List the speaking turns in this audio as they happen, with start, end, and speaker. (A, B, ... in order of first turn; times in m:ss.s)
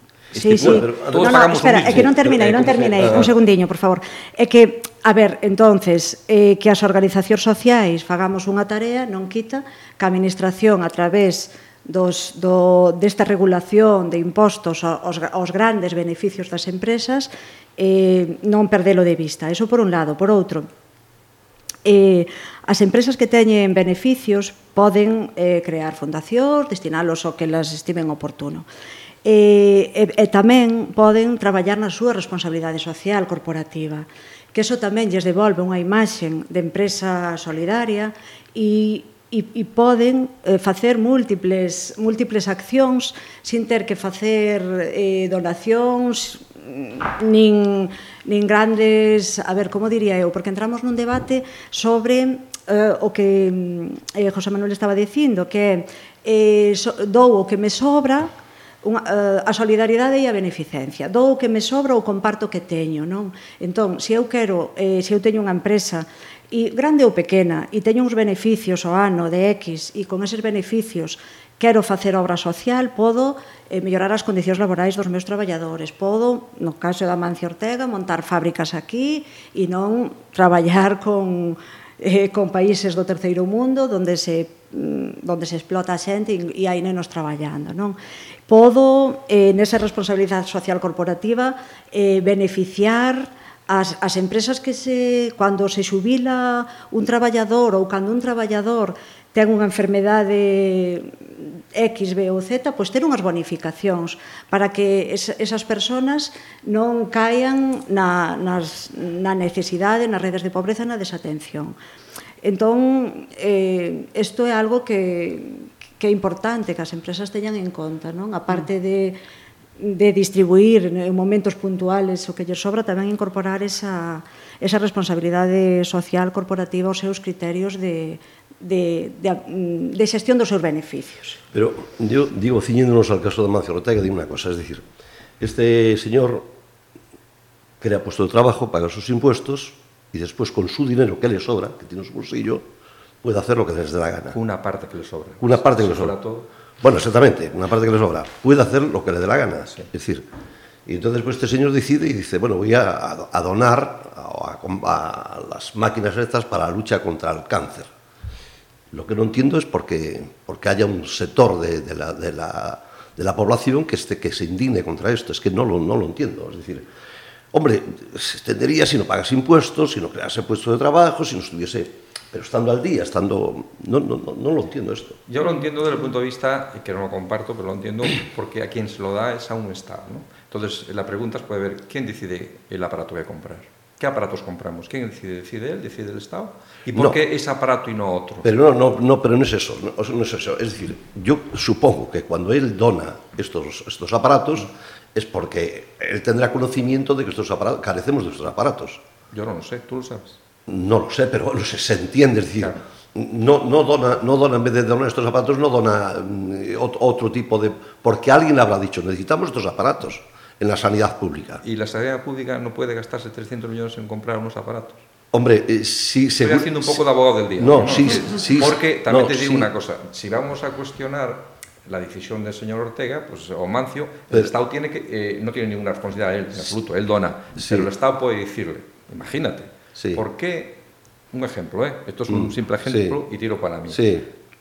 0:00.3-0:03.3 A
0:00.3-0:20.7 B
0:00.5-0:03.3 C
0:21.8-0:28.7 B
0:29.2-0:58.3 B
0:58.8-1:28.0 B
1:28.5-1:51.8 B
1:52.4-1:59.2 B
1:59.8-2:11.4 B
2:11.5-2:14.8 C
2:15.4-2:16.5 C
2:17.8-2:22.7 C
2:23.2-2:24.4 C
2:24.3-2:26.5 A
2:25.4-2:26.1 C
2:26.8-2:30.3 C
2:30.9-2:37.9 C
2:38.9-2:46.9 C
2:47.5-2:55.2 C
2:55.3-3:08.5 A
3:08.4-3:19.0 C
3:19.3-3:20.4 A
3:20.7-3:31.6 C
3:31.6-3:35.0 A
3:35.3-3:37.0 C
3:36.4-3:50.8 A
3:37.6-3:39.7 C
3:47.6-3:47.9 C
3:50.0-3:50.2 C
3:51.3-3:54.0 A
3:52.3-3:53.2 C
3:53.9-3:54.3 C